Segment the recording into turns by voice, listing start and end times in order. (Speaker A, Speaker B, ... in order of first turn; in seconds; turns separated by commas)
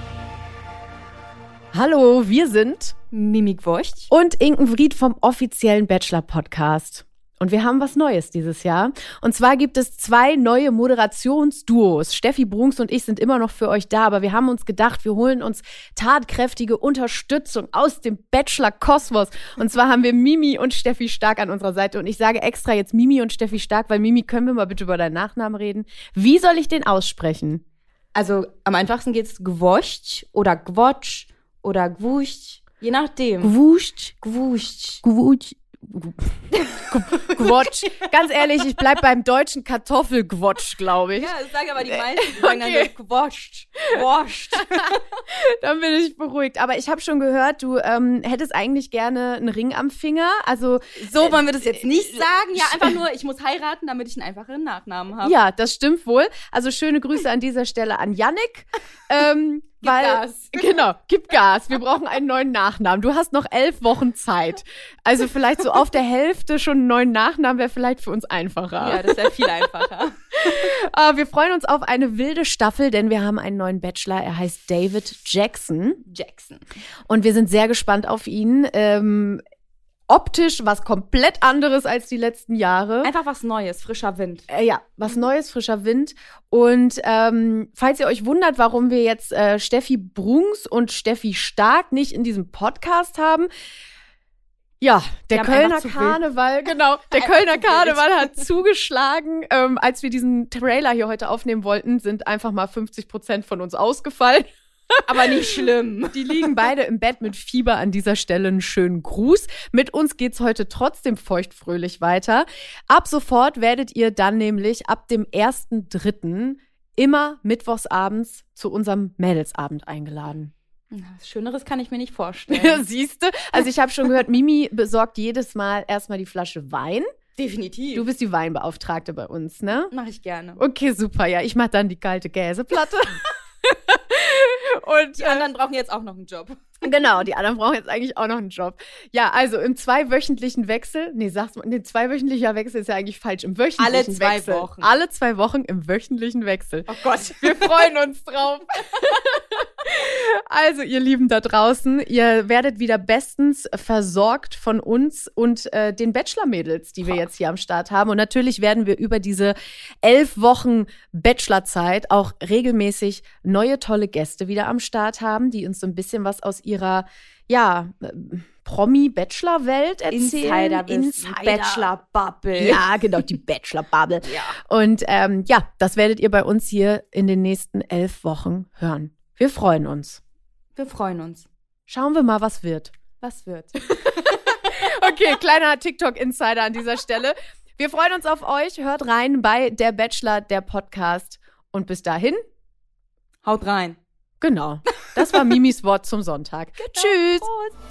Speaker A: 1.7-3.0, Speaker B: 3.1-4.1, Speaker A: 4.1-27.6, Speaker B: 28.1-33.5, Speaker A: 33.4-34.2, Speaker B: 34.2-35.0, Speaker A: 35.0-41.3, Speaker B: 37.4-37.7, Speaker B: 41.1-45.0, Speaker A: 41.9-42.9, Speaker A: 45.3-53.0, Speaker B: 51.0-55.4, Speaker A: 55.2-69.5, Speaker B: 59.8-60.6, Speaker B: 68.8-70.1, Speaker A: 70.3-76.0, Speaker B: 76.1-76.6, Speaker A: 77.1-79.4, Speaker A: 80.1-83.1, Speaker B: 83.0-84.5, Speaker A: 84.5-93.5, Speaker A: 94.8-105.5, Speaker B: 95.3-96.2, Speaker B: 97.1-98.4, Speaker B: 105.1-106.6, Speaker A: 106.1-120.5, Speaker B: 120.9-122.8, Speaker A: 122.5-127.1, Speaker B: 127.4-128.1, Speaker A: 128.0-129.9, Speaker B: 129.9-130.6, Speaker A: 130.6-135.5, Speaker B: 135.2-136.8, Speaker A: 136.8-171.9, Speaker B: 143.8-144.9, Speaker B: 146.9-147.9, Speaker B: 170.1-172.9, Speaker A: 172.6-180.2, Speaker B: 174.2-174.6, Speaker B: 180.8-181.5, Speaker A: 181.9-182.9, Speaker B: 183.2-183.8, Speaker A: 183.9-192.4, Speaker B: 193.4-194.0, Speaker A: 194.4-197.5, Speaker B: 196.8-197.8